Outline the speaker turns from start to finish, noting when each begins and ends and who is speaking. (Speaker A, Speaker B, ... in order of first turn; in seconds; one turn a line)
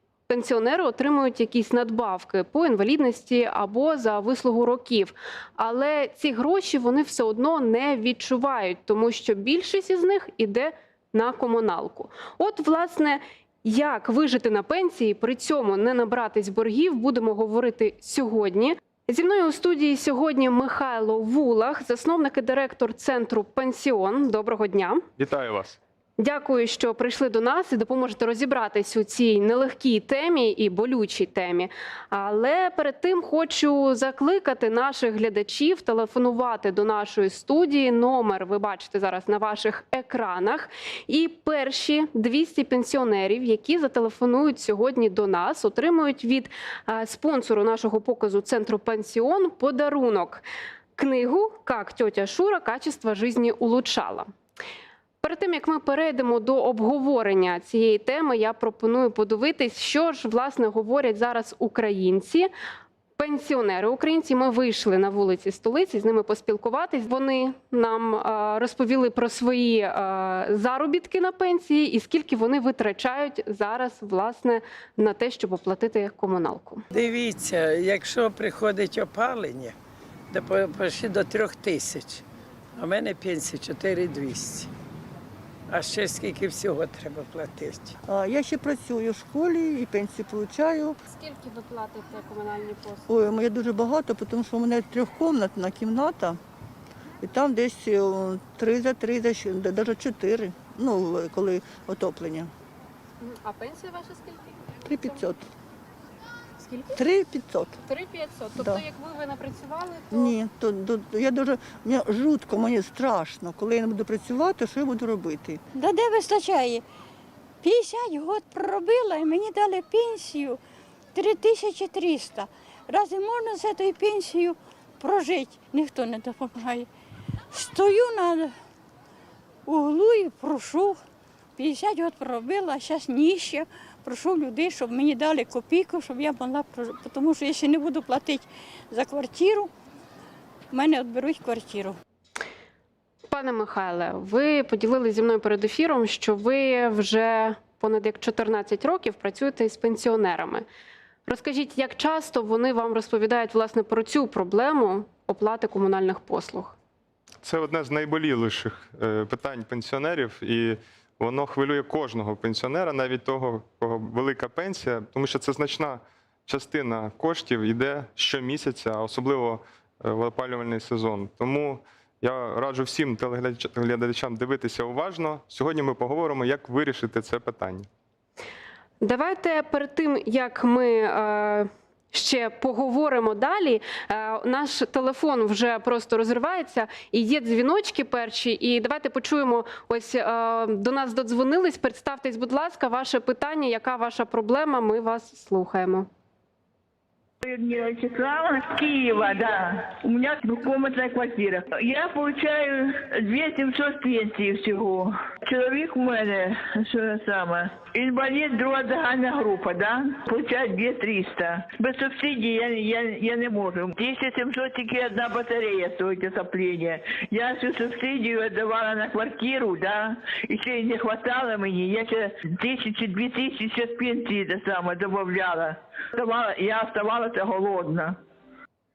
Speaker A: 0.3-25.0
Speaker B: 25.2-25.8
Speaker A: 26.2-50.4
Speaker A: 51.0-54.3
Speaker A: 55.2-62.5
Speaker A: 63.2-76.8
Speaker C: 76.9-79.7
Speaker C: 80.3-82.2
Speaker C: 82.8-84.7
Speaker C: 85.7-87.9
Speaker D: 88.1-91.0
Speaker A: 91.1-93.1
Speaker D: 93.1-96.4
Speaker D: 97.2-102.5
Speaker A: 103.2-104.4
Speaker D: 104.8-105.4
Speaker A: 106.7-107.0
Speaker D: 106.9-107.8
Speaker A: 107.8-110.3
Speaker D: 108.6-108.8
Speaker D: 110.1-115.6
Speaker E: 115.8-116.8
Speaker E: 117.6-120.6
Speaker E: 121.1-126.9
Speaker E: 127.5-128.5
Speaker E: 129.7-131.0
Speaker E: 131.6-139.7
Speaker E: 140.7-142.0
Speaker A: 143.3-150.7
Speaker A: 151.2-156.8
Speaker B: 157.4-177.9
Speaker A: 179.0-196.1
Speaker F: 197.4-228.2